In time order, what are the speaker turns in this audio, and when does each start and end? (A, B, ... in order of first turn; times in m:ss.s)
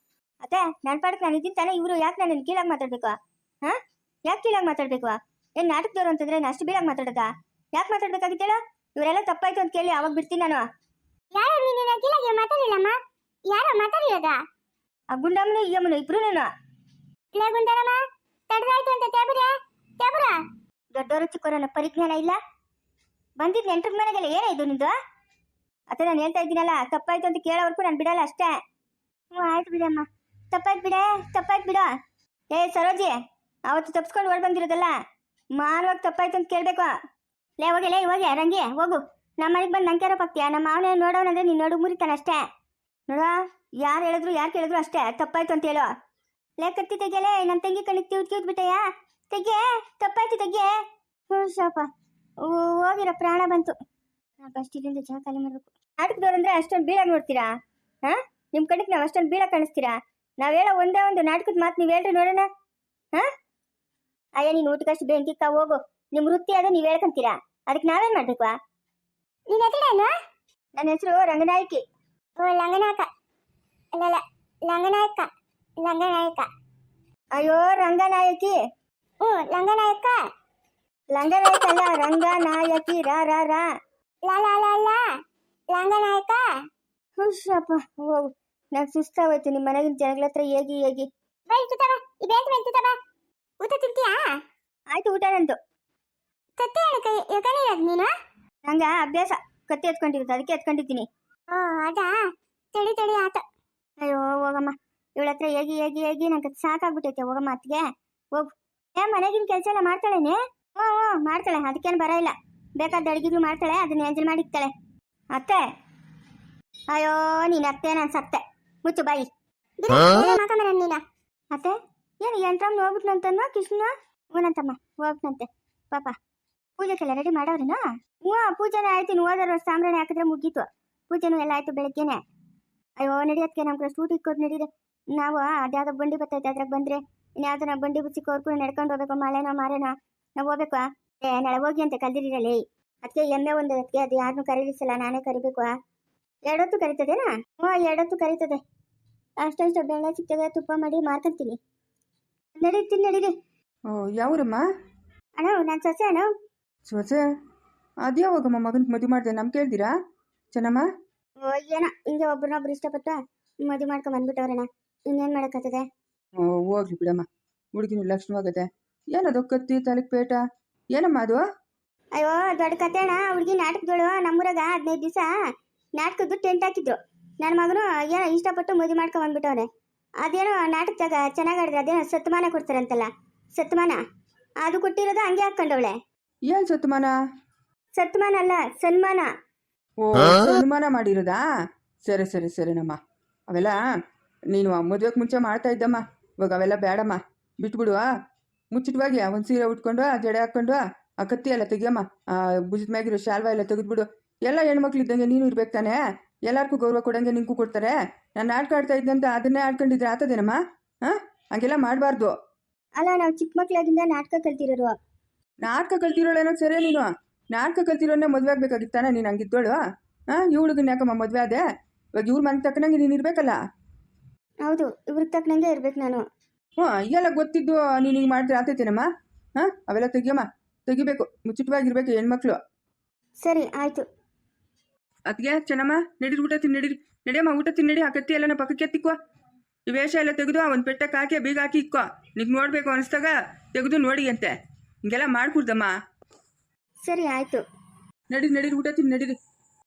0:00.4-0:10.6 A
0:11.3-0:12.9 B
0:13.5-0:14.4 B
0:15.1-0:16.5 A
0:17.3-0:18.0 B
0:18.5-0:20.3 B
0:20.9-0:22.4 A
0:23.4-0:24.9 A
0:25.9-0:28.5 A
0:29.3-0:31.9 A
0:32.5-0:33.1 A
0:33.7-0:35.0 A
0:35.6-0:36.9 A
0:37.6-0:42.4 A
0:43.1-0:45.9 A
0:46.6-0:51.9 A
0:52.4-0:53.8 A
0:54.4-0:57.5 A
0:58.0-1:02.5 A
1:04.4-1:08.5 A
1:09.5-1:10.1 B
1:10.8-1:11.8 A
1:12.4-1:13.1 B
1:13.9-1:15.3 B
1:15.8-1:16.5 B
1:17.3-1:18.6 A
1:19.2-1:20.2 B
1:21.1-1:23.6 A
1:24.2-1:25.1 B
1:25.7-1:26.4 B
1:27.2-1:31.1 A
1:31.5-1:33.0 B
1:33.6-1:34.4 B
1:34.9-1:35.6 A
1:36.6-1:38.1 B
1:38.6-1:41.1 A
1:41.5-1:43.4 B
1:44.0-1:47.8 A
1:48.3-1:54.7 A
1:55.3-1:55.6 A
1:56.9-1:59.3 A
1:59.9-2:01.0 B
1:59.9-2:00.4 A
2:01.5-2:06.2 A
2:06.8-2:12.2 A
2:13.0-2:25.7 A
2:26.4-2:28.6 A
2:29.4-2:31.6 A
2:32.6-2:33.3 A
2:33.9-2:34.6 C
2:35.4-2:36.3 A
2:36.8-2:37.2 C
2:38.0-2:39.9 C
2:40.5-2:40.9 C
2:41.4-2:45.8 A
2:46.4-2:50.4 C
2:50.9-2:51.4 C
2:52.2-2:55.3 A
2:56.0-2:59.7 A
3:00.2-3:04.0 A
3:04.6-3:06.0 A
3:06.5-3:07.1 C
3:08.0-3:09.3 A
3:10.0-3:11.4 C
3:12.0-3:13.0 C
3:13.5-3:13.8 C
3:14.5-3:18.0 C
3:18.7-3:32.3 C
3:33.0-3:34.9 A
3:35.6-3:39.8 C
3:40.3-3:41.6 C
3:42.2-3:43.6 C
3:44.6-3:46.2 A
3:46.8-3:52.6 C
3:53.4-3:54.0 A
3:55.3-3:59.2 C
3:59.9-4:05.9 C
4:07.0-4:07.6 A
4:08.3-4:09.4 C